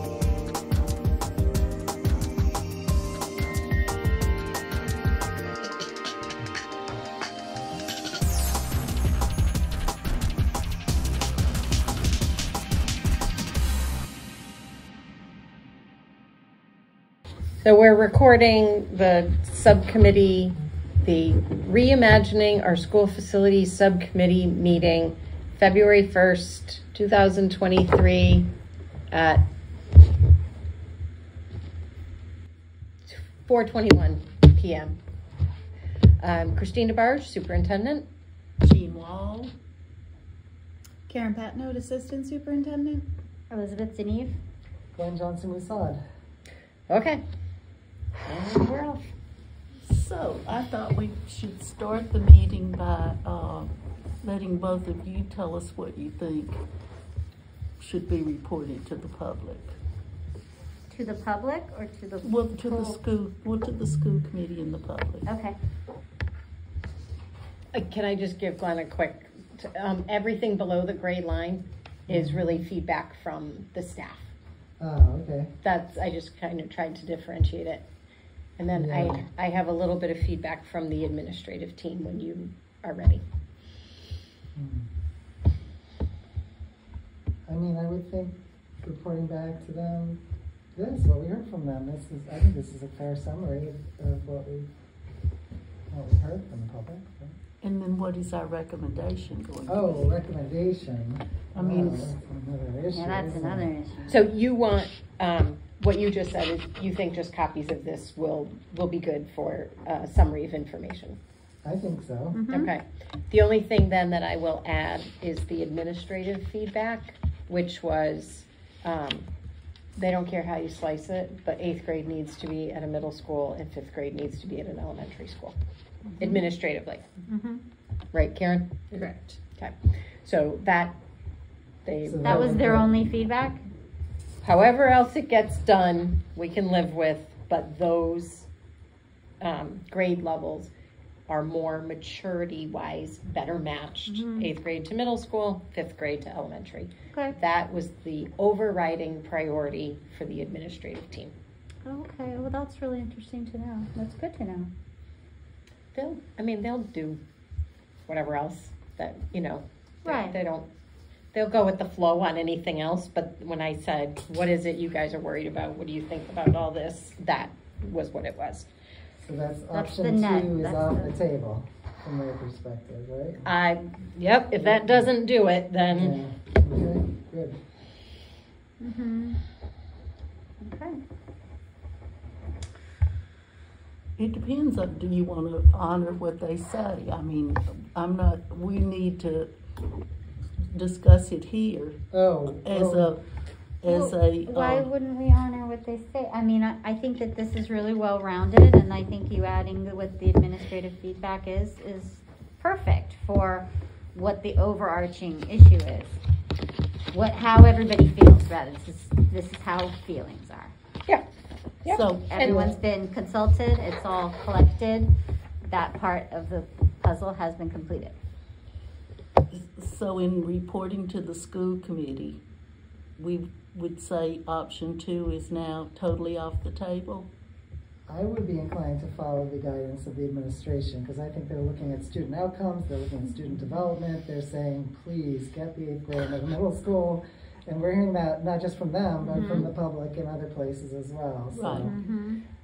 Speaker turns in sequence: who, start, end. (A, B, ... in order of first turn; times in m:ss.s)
0:17.6-0:28.5 A
0:29.1-0:29.4 A
0:33.0-0:35.0 A
0:36.2-0:38.0 A
0:38.6-0:39.5 B
0:41.1-0:43.0 C
0:43.5-0:44.4 D
0:44.9-0:46.0 E
0:46.9-0:47.2 A
0:48.2-0:49.1 A
0:49.8-0:56.6 B
0:57.8-0:59.8 B
1:00.9-1:03.0 D
1:02.2-1:05.3 B
1:05.2-1:05.6 D
1:07.7-1:14.3 A
1:12.1-1:12.5 E
1:14.8-1:15.5 E
1:15.6-1:17.8 A
1:18.6-1:23.2 A
1:18.7-1:19.2 E
1:24.5-1:24.9 E
1:27.5-1:30.2 E
1:30.7-1:34.7 E
1:35.9-1:37.3 E
1:37.6-1:40.1 B
1:39.7-1:43.7 E
1:41.5-1:42.1 B
1:42.9-1:44.2 D
1:44.1-1:51.2 A
1:51.6-1:52.4 E
1:52.3-1:52.7 D
1:52.5-1:59.3 A
2:00.0-2:05.5 A
2:06.2-2:07.1 A
2:07.3-2:07.6 D
2:08.1-2:09.0 A
2:08.9-2:09.4 C
2:09.5-2:10.9 A
2:11.8-2:12.5 A
2:12.0-2:12.9 E
2:12.2-2:13.6 D
2:14.4-2:18.5 A
2:19.4-2:20.7 A
2:21.3-2:31.3 A
2:24.1-2:24.5 D
2:31.8-2:34.7 D
2:35.9-2:37.2 A
2:38.1-2:40.7 A
2:40.0-2:40.4 D
2:41.3-2:48.7 A
2:49.2-2:53.4 E
2:49.7-2:51.1 D
2:53.4-2:56.2 A
2:54.5-2:55.1 E
2:55.9-2:57.6 E
2:58.8-2:59.4 D
3:00.6-3:01.0 D
3:04.2-3:09.5 B
3:10.7-3:12.0 B
3:12.1-3:13.1 E
3:12.6-3:13.2 B
3:13.8-3:14.9 B
3:13.8-3:26.2 D
3:27.1-3:30.7 D
3:31.8-3:32.7 A
3:31.9-3:32.6 B
3:32.3-3:38.2 D
3:39.5-3:42.4 B
3:43.2-3:47.3 B
3:48.1-4:02.0 E
3:59.2-3:59.7 D
4:01.5-4:01.9 B
4:01.7-4:02.4 D